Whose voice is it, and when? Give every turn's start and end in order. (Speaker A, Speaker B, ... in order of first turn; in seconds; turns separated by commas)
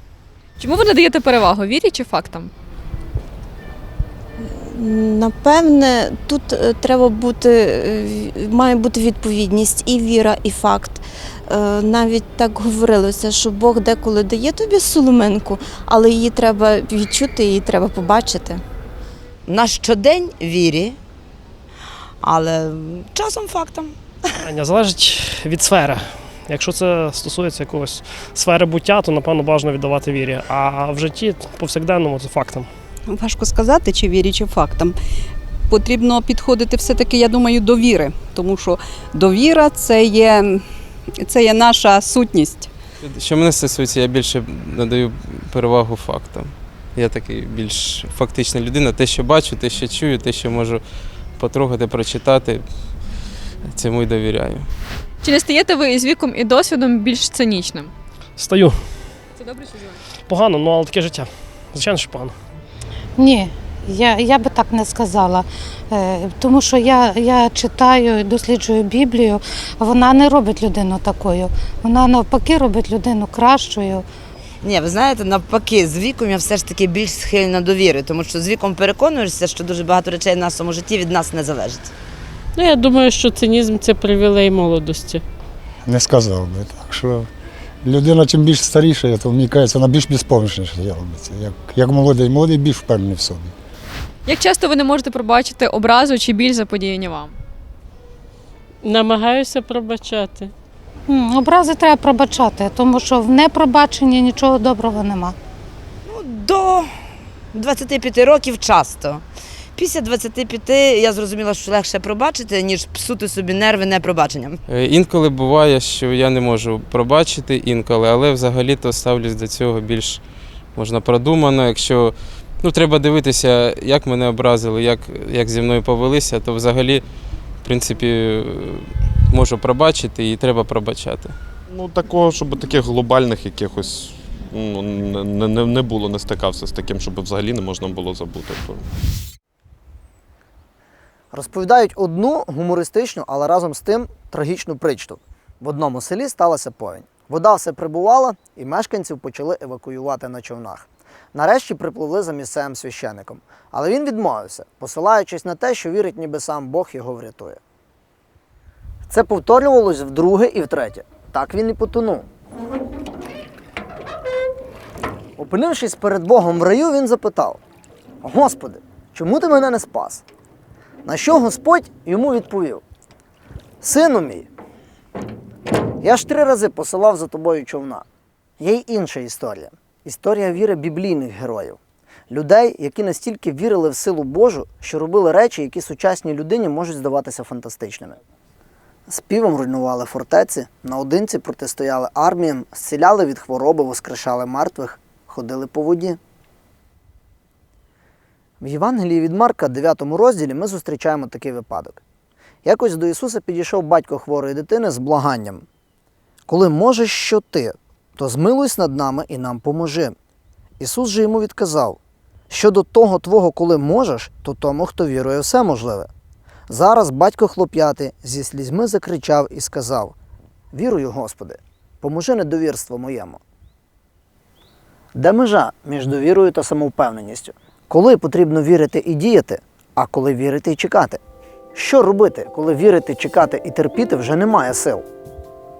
Speaker A: 0.6-2.5, Speaker B: 4.4-18.6, Speaker C: 19.4-21.0, Speaker C: 22.2-23.9, Speaker D: 24.4-32.7, Speaker E: 33.1-34.9, Speaker E: 35.7-40.6, Speaker E: 41.2-42.7, Speaker F: 43.0-50.8, Speaker F: 51.4-52.6, Speaker F: 53.6-54.7, Speaker A: 55.2-57.9, Speaker D: 58.4-58.8, Speaker A: 59.4-59.9, Speaker D: 60.3-62.3, Speaker G: 63.2-74.0, Speaker C: 74.6-81.9, Speaker H: 82.5-85.2, Speaker I: 85.8-87.3, Speaker I: 87.8-93.5, Speaker A: 94.2-97.3, Speaker H: 98.8-100.5, Speaker G: 101.1-105.3, Speaker C: 106.1-106.9, Speaker C: 107.5-109.2, Speaker C: 109.8-114.5, Speaker F: 114.7-120.2, Speaker F: 120.7-127.0, Speaker F: 127.6-131.3, Speaker J: 131.8-138.8, Speaker K: 141.3-157.6, Speaker K: 159.1-162.3, Speaker K: 165.4-167.6, Speaker K: 168.2-170.2, Speaker K: 171.0-172.8, Speaker K: 173.8-174.5, Speaker K: 176.0-178.0, Speaker K: 178.6-181.8, Speaker K: 182.3-188.2, Speaker K: 189.1-196.2, Speaker K: 198.6-202.0, Speaker K: 202.6-205.7, Speaker K: 206.5-210.1, Speaker K: 210.8-212.0, Speaker K: 212.5-216.1, Speaker K: 216.7-220.1, Speaker K: 220.7-223.4, Speaker K: 225.1-231.2, Speaker K: 231.7-235.1